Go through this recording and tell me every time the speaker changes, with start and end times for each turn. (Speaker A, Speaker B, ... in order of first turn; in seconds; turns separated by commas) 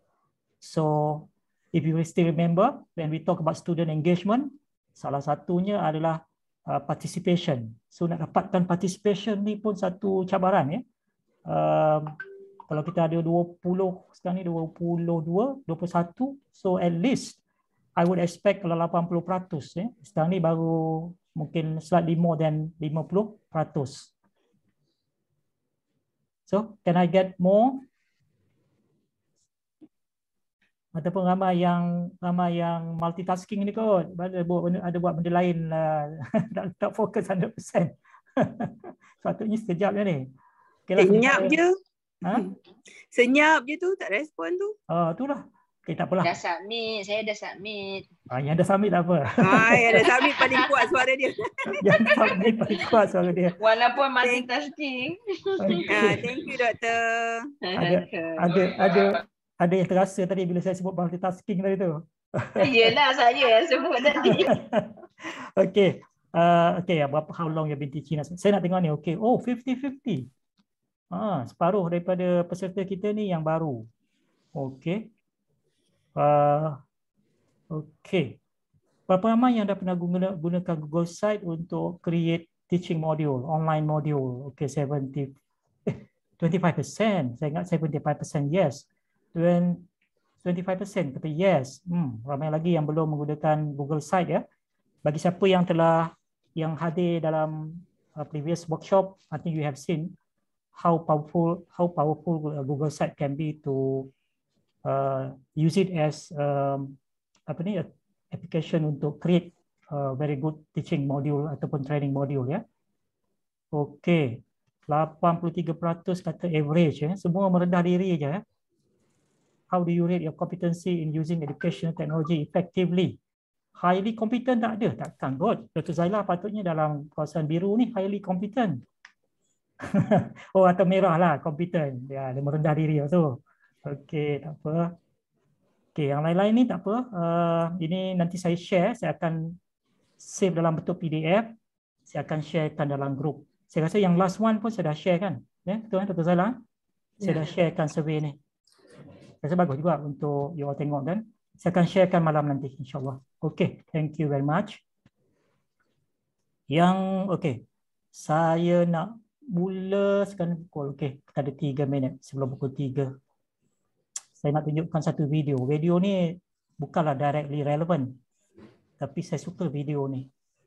Speaker A: 0.6-10.8, Speaker A: 11.4-12.1, Speaker A: 12.7-17.4, Speaker A: 17.9-24.1, Speaker A: 26.5-27.8, Speaker A: 30.9-40.3, Speaker A: 40.9-41.5, Speaker B: 41.0-41.7, Speaker B: 43.1-44.7, Speaker A: 44.9-46.3, Speaker C: 46.2-48.1, Speaker A: 48.3-50.0, Speaker B: 49.4-51.7, Speaker C: 49.8-50.9, Speaker A: 51.8-53.5, Speaker C: 53.6-56.2, Speaker A: 55.6-56.3, Speaker B: 55.8-57.5, Speaker C: 57.6-59.2, Speaker A: 57.8-62.9, Speaker C: 62.6-64.5, Speaker A: 64.1-70.3, Speaker A: 71.1-73.9, Speaker A: 74.5-75.0, Speaker A: 76.2-76.8, Speaker A: 77.7-78.4, Speaker A: 79.1-85.3, Speaker A: 85.9-89.8, Speaker A: 90.4-94.4, Speaker A: 95.0-100.1, Speaker A: 100.7-104.1, Speaker A: 104.8-107.0, Speaker A: 107.5-112.6, Speaker A: 113.7-118.4, Speaker A: 119.7-123.2, Speaker A: 123.7-128.8, Speaker A: 129.9-134.9, Speaker A: 135.9-139.6, Speaker A: 140.2-141.5, Speaker A: 142.1-146.6, Speaker A: 147.2-148.4, Speaker A: 149.4-154.8, Speaker A: 156.7-157.6, Speaker A: 158.1-163.1, Speaker A: 164.4-168.2, Speaker A: 169.0-170.3